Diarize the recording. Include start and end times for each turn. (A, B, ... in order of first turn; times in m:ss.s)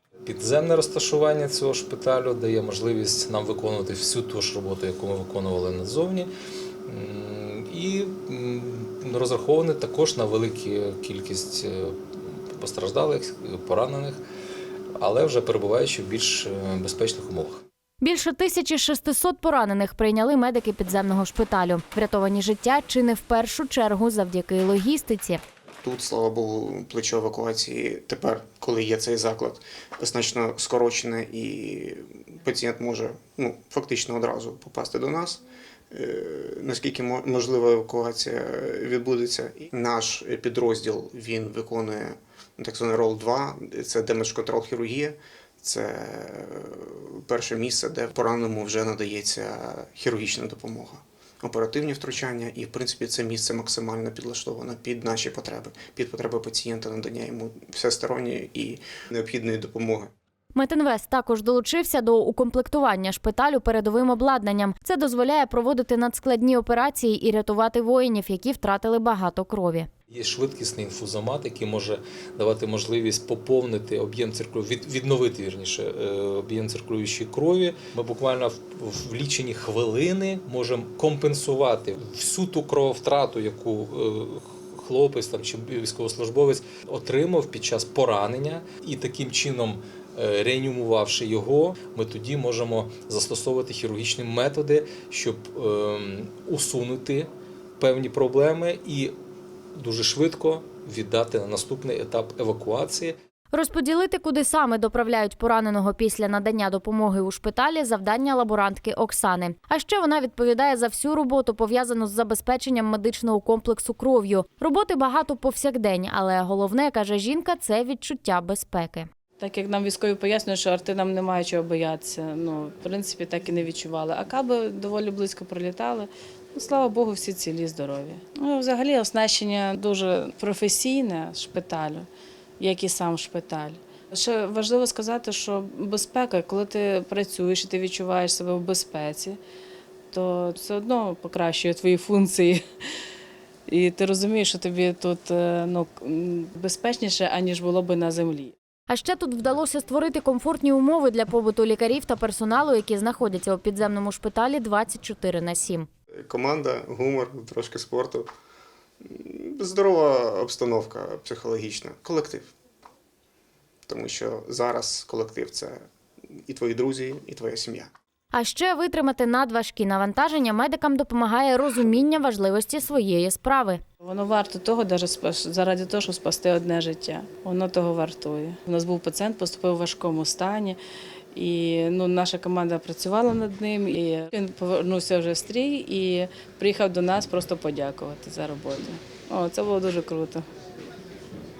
0:00.2-0:06.3 A
0:06.8-0:14.2 A
0:15.0-0:17.6 A
0:18.0-0:25.4 B
0:25.8-1:00.1 C
1:00.5-1:09.9 B
1:10.1-1:39.1 A
1:39.8-1:43.2 A
1:43.5-1:59.1 B
1:59.4-2:12.1 D
2:12.6-2:19.4 D
2:20.1-2:22.6 D
2:23.7-2:28.5 D
2:28.9-2:35.9 B
2:36.2-2:38.3 C
2:39.0-2:42.5 C
2:43.8-2:45.8 C
2:46.5-2:47.9 C
2:48.3-2:53.8 B
2:54.0-3:00.8 D
3:01.3-3:10.5 D